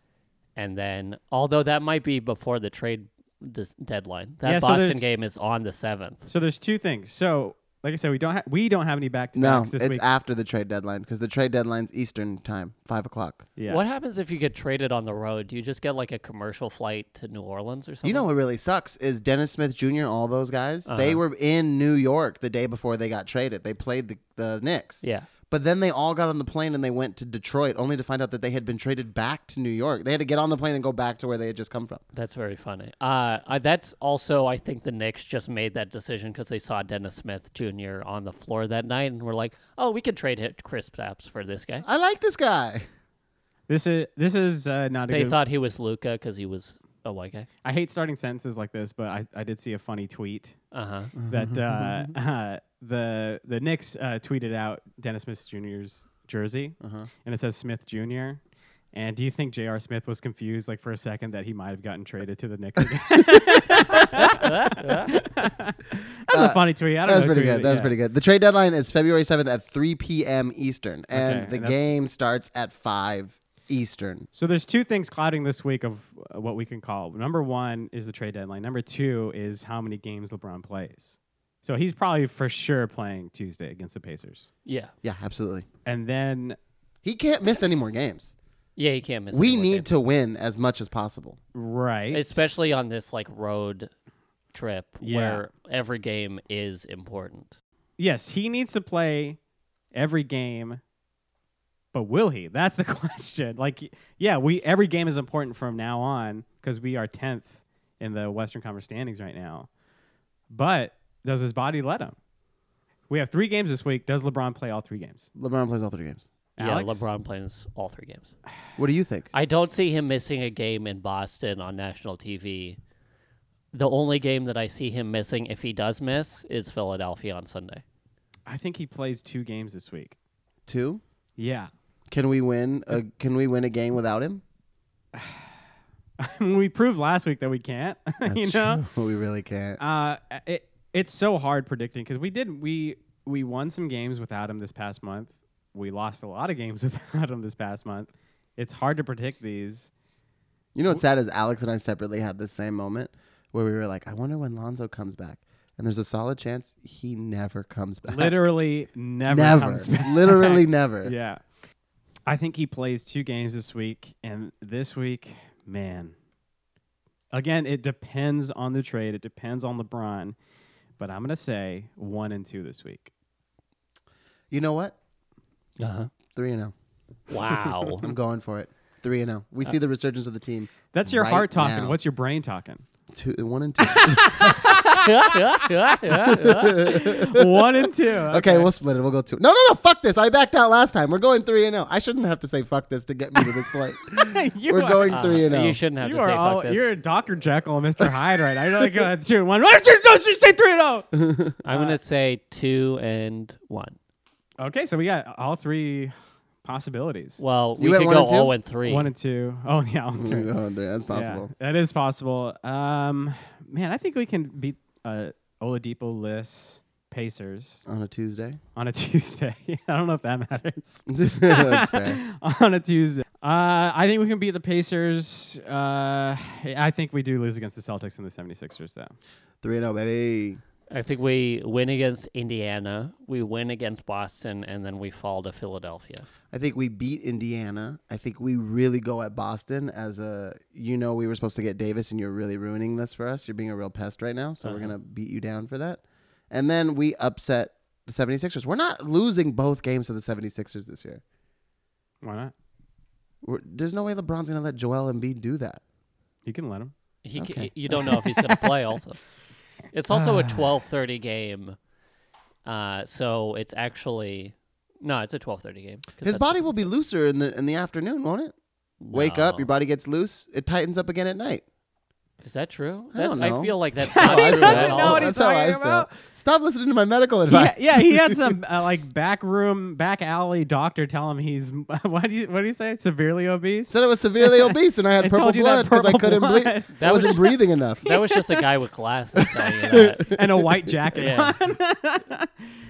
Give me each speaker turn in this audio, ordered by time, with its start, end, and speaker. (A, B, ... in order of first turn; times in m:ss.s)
0:00.6-0:06.3 A
0:04.4-0:05.0 B
0:06.3-0:10.0 B
0:09.3-0:13.4 C
0:13.6-0:13.8 B
0:13.7-0:18.3 A
0:18.0-0:32.0 C
0:20.8-0:21.2 A
0:25.0-0:25.3 A
0:32.1-0:41.8 A
0:41.8-0:42.9 C
0:43.7-0:45.4 B
0:45.1-0:47.5 A
0:47.6-0:50.6 B
0:50.7-0:51.1 A
0:51.2-0:52.1 C
0:51.3-0:58.4 B
0:56.8-0:57.1 C
0:58.9-1:07.9 B
1:03.1-1:04.0 C
1:04.1-1:05.1 A
1:06.3-1:14.3 C
1:11.1-1:11.9 B
1:14.3-1:24.5 B
1:24.6-1:24.9 A
1:25.0-1:25.6 C
1:25.8-1:26.6 B
1:27.0-1:28.3 C
1:28.8-1:29.9 A
1:29.3-1:31.4 C
1:31.5-1:32.5 B
1:32.1-1:33.9 A
1:34.5-1:37.6 A
1:35.0-1:35.4 B
1:38.0-1:39.4 B
1:39.9-1:40.8 B
1:41.9-1:49.7 B
1:50.5-1:52.2 B
1:53.1-1:55.3 B
1:55.4-1:56.2 C
1:56.6-1:57.0 B
1:56.6-1:58.4 A
1:58.8-1:59.3 C
1:59.3-2:02.8 A
2:03.7-2:07.8 A
2:08.5-2:10.2 B
2:10.7-2:11.0 C
2:11.4-2:11.7 B
2:12.1-2:14.4 C
2:15.1-2:15.5 B
2:16.2-2:18.8 B
2:18.2-2:19.8 C
2:19.8-2:29.9 B
2:30.7-2:38.4 C
2:38.1-2:41.4 B
2:39.2-2:41.1 C
2:42.3-2:46.1 B
2:47.3-2:50.3 B
2:51.0-2:53.1 B
2:54.5-2:54.9 C
2:55.8-2:56.1 A
2:56.3-2:56.7 C
2:57.3-2:58.1 A
2:58.0-3:02.0 C
3:00.9-3:02.8 B
3:03.1-3:04.7 C
3:03.8-3:05.7 B
3:04.9-3:06.9 A
3:06.3-3:15.8 C
3:06.8-3:08.7 B
3:13.4-3:15.4 B
3:15.1-3:16.8 A
3:16.0-3:21.1 B
3:21.1-3:21.5 C
3:21.6-3:24.0 A
3:21.7-3:22.0 B
3:24.6-3:26.1 B
3:26.6-3:27.4 B
3:27.4-3:29.1 A
3:27.8-3:28.5 C
3:28.8-3:30.5 B
3:30.1-3:31.5 C
3:31.1-3:37.8 B
3:37.8-3:38.6 C
3:38.8-3:49.1 B
3:41.1-3:42.2 C
3:49.6-3:50.6 C
3:50.9-3:56.2 A
3:56.5-4:11.2 C
4:04.6-4:04.9 A
4:12.2-4:12.5 B
4:13.4-4:15.8 C
4:16.4-4:16.9 B
4:17.2-4:19.2 A
4:17.4-4:17.7 C
4:18.0-4:18.7 B
4:19.9-4:21.8 A
4:20.1-4:20.7 B
4:22.6-4:26.5 A
4:26.2-4:28.5 C
4:29.0-4:29.7 A
4:29.1-4:31.6 C
4:32.4-4:35.3 A
4:33.1-4:38.6 C
4:34.0-4:36.1 B
4:37.5-4:48.6 B
4:43.9-4:48.0 C
4:46.9-4:50.3 A
4:49.9-4:50.9 C
4:50.2-4:52.5 B
4:51.1-4:51.6 A